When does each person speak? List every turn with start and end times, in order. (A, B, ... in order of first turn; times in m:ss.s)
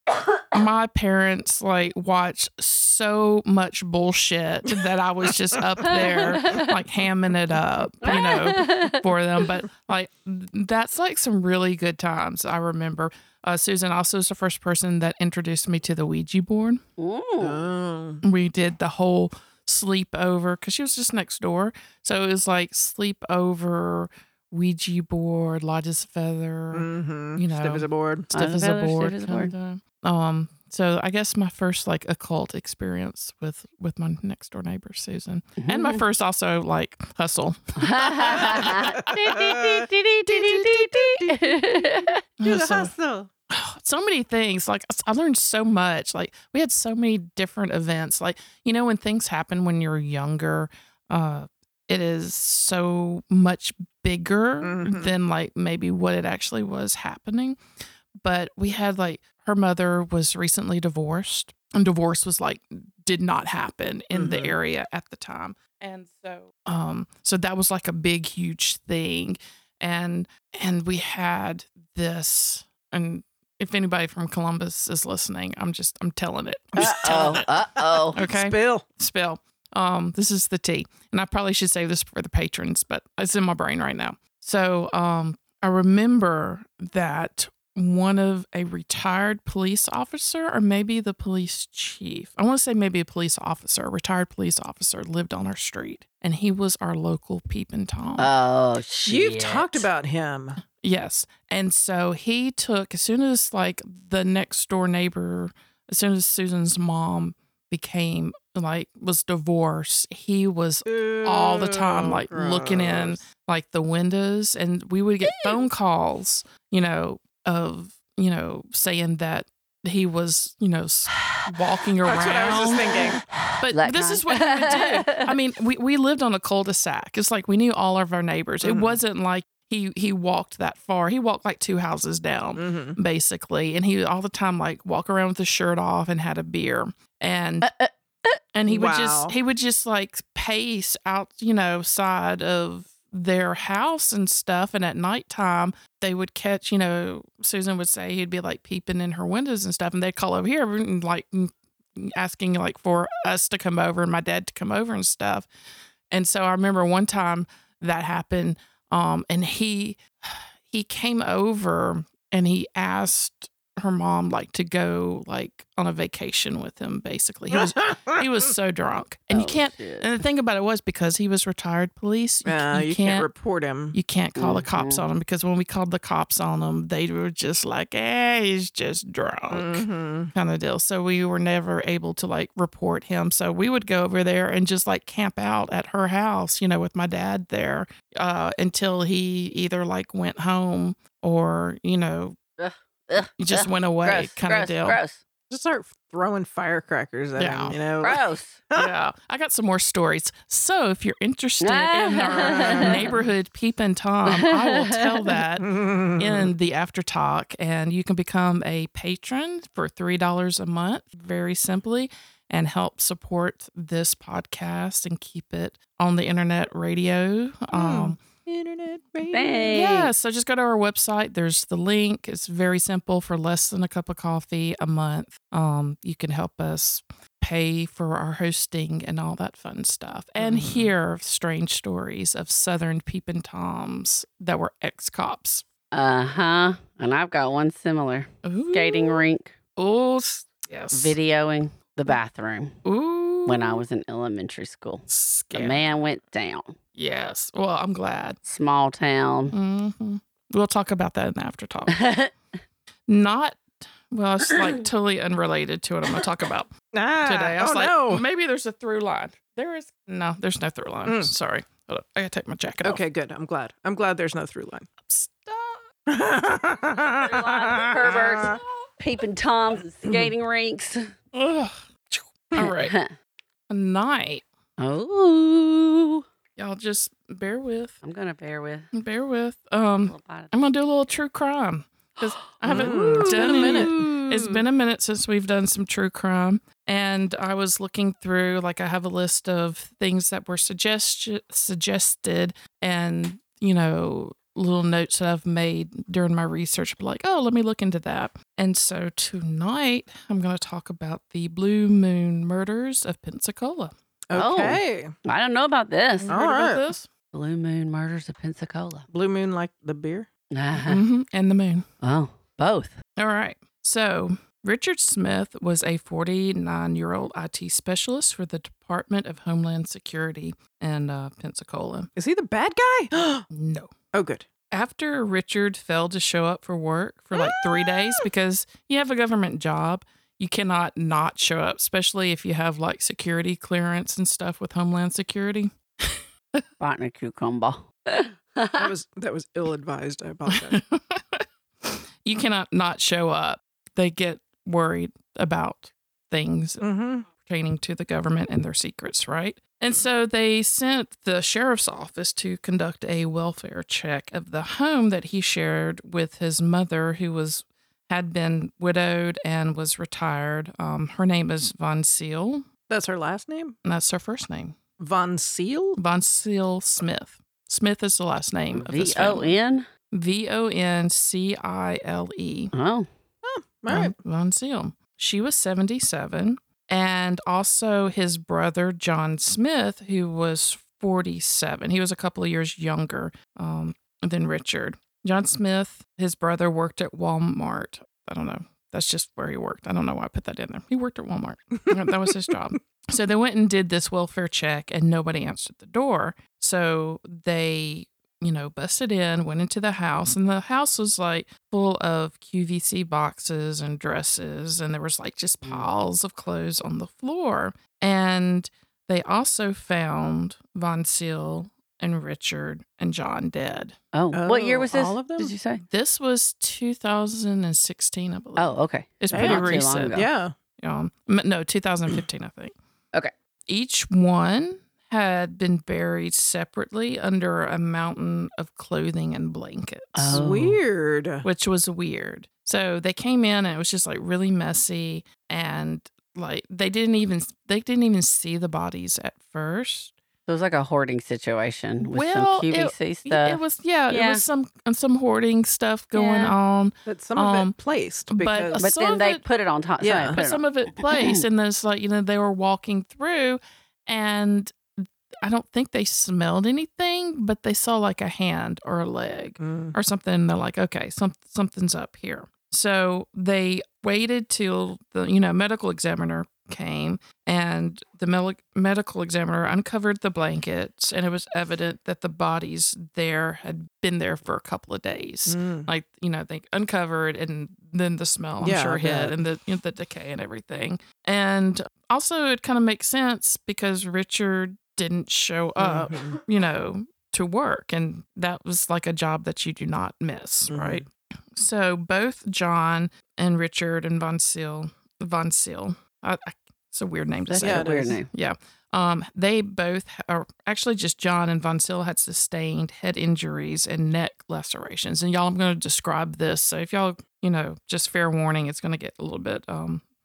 0:00.5-0:16.8 A
0:05.8-0:06.2 B
0:06.2-0:06.7 C
0:08.0-0:09.0 C
0:17.0-0:17.6 C
0:17.4-0:18.2 B
0:18.2-0:39.2 A
0:26.7-0:28.3 B
0:28.3-0:29.5 C
0:35.6-0:36.0 C
0:37.8-0:42.2 C
0:38.2-0:43.3 B
0:40.3-0:40.8 A
0:42.4-0:42.9 A
0:43.5-0:57.6 A
0:54.6-0:55.2 B
0:58.2-1:17.5 A
1:04.1-1:04.6 B
1:16.8-1:18.8 B
1:16.8-1:18.2 C
1:18.1-1:38.3 A
1:38.2-1:39.9 C
1:39.1-1:40.6 B
1:40.8-2:02.9 A
1:50.9-1:53.2 B
1:55.3-1:55.6 C
2:01.1-2:01.5 C
2:02.0-2:03.2 B
2:03.0-2:05.4 C
2:03.6-2:17.7 A
2:08.6-2:09.0 B
2:12.6-2:13.0 B
2:17.6-2:18.4 C
2:18.5-2:35.5 A
2:18.7-2:19.4 B
2:36.1-2:53.3 A
2:47.5-2:48.2 B
2:49.3-2:50.1 C
2:52.4-2:54.0 B
2:53.9-3:12.4 A
2:54.4-2:55.0 C
2:59.5-3:00.3 B
3:12.6-3:15.2 C
3:13.4-3:15.0 A
3:15.5-3:18.9 B
3:17.4-3:17.8 A
3:18.0-3:18.6 C
3:18.8-3:38.2 A
3:21.6-3:23.1 C
3:22.3-3:23.0 B
3:24.3-3:25.4 C
3:25.6-3:26.5 B
3:37.7-3:39.8 B
3:39.3-3:40.1 C
3:39.7-3:55.6 A
3:50.4-3:50.9 B
3:55.9-3:59.5 C
3:58.4-3:59.2 A
3:59.8-4:01.2 A
4:00.9-4:02.8 C
4:02.8-4:03.8 A
4:03.5-4:06.8 C
4:05.1-4:05.9 A
4:07.0-4:08.4 A
4:08.5-4:09.6 C
4:09.5-4:12.1 A
4:11.9-4:12.3 C
4:13.1-4:16.7 A
4:16.9-4:18.2 B
4:17.2-4:23.0 A
4:21.1-4:21.3 B
4:22.8-4:24.9 B
4:25.0-4:25.9 A
4:26.1-4:28.6 B
4:27.2-4:31.1 C
4:28.0-4:28.6 A
4:31.3-4:32.9 A
4:32.6-4:33.1 C
4:33.7-4:34.4 A
4:34.8-4:36.2 C
4:36.6-4:38.0 A
4:38.0-4:38.9 C
4:38.9-5:04.0 A
4:40.1-4:40.5 C
4:42.2-4:44.2 C
4:42.7-4:44.6 B
5:04.3-5:05.1 B
5:04.4-5:06.3 C
5:06.2-5:07.1 A
5:06.3-5:06.8 B
5:07.3-5:09.1 C
5:09.1-5:10.3 B
5:10.5-5:11.0 C
5:10.8-5:11.9 A
5:12.0-5:13.0 C
5:13.2-5:22.1 A
5:22.2-5:23.5 B
5:23.5-5:23.9 A
5:24.1-5:24.5 B
5:24.7-5:36.6 A
5:36.8-5:38.9 C
5:38.8-5:40.7 B
5:40.5-6:02.7 A
5:46.8-5:47.3 B
6:02.9-6:03.8 B
6:03.8-6:04.8 A
6:05.0-6:06.0 B
6:06.0-6:09.6 A
6:08.8-6:09.9 C
6:10.1-6:12.7 A
6:12.7-6:13.1 C
6:13.4-6:14.2 B
6:13.9-6:54.0 A
6:54.1-6:55.8 C
6:54.3-6:55.5 B
6:55.8-7:00.2 A
6:58.6-7:00.3 C
6:59.3-7:00.5 B
7:00.8-7:02.8 A
7:03.7-7:10.4 A
7:10.2-7:10.8 C
7:10.3-7:11.5 B
7:11.4-7:20.2 A
7:20.5-7:24.4 C
7:22.0-7:27.8 A
7:26.1-7:26.6 C
7:27.1-7:28.8 B
7:28.3-7:29.4 A
7:28.8-7:31.4 C
7:30.0-7:30.4 B
7:30.4-8:30.1 A
7:39.6-7:40.0 B
7:55.5-7:55.9 B
7:58.6-7:59.4 B
8:05.8-8:06.4 B
8:10.7-8:11.1 B
8:17.5-8:18.3 C
8:17.6-8:18.2 B